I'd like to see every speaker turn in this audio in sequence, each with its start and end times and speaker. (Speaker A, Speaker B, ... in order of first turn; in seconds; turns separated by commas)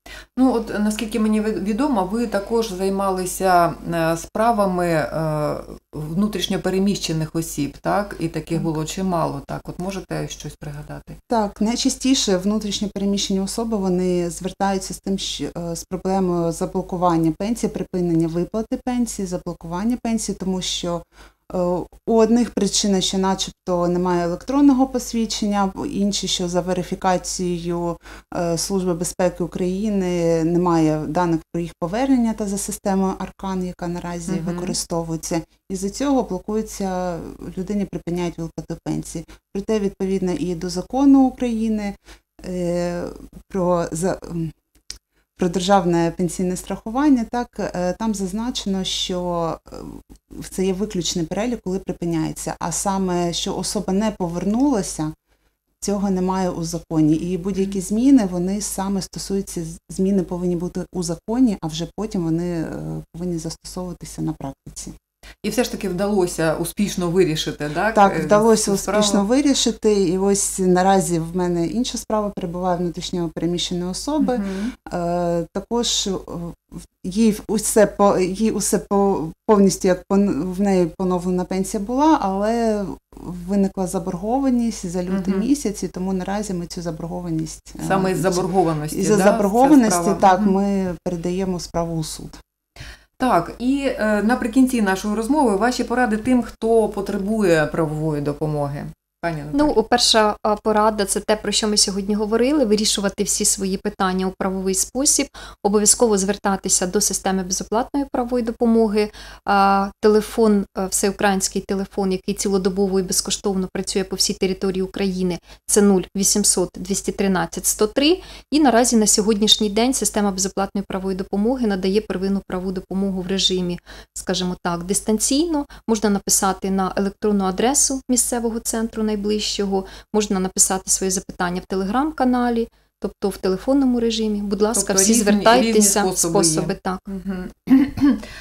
Speaker A: 0.4-11.2, Speaker B: 11.3-44.5, Speaker A: 34.3-34.8, Speaker B: 45.4-55.1, Speaker B: 55.8-65.0, Speaker A: 65.4-69.2, Speaker B: 67.9-92.4, Speaker A: 74.2-74.7, Speaker A: 85.1-85.5, Speaker A: 87.8-90.5, Speaker A: 93.2-99.7, Speaker C: 99.5-137.1, Speaker A: 134.8-138.2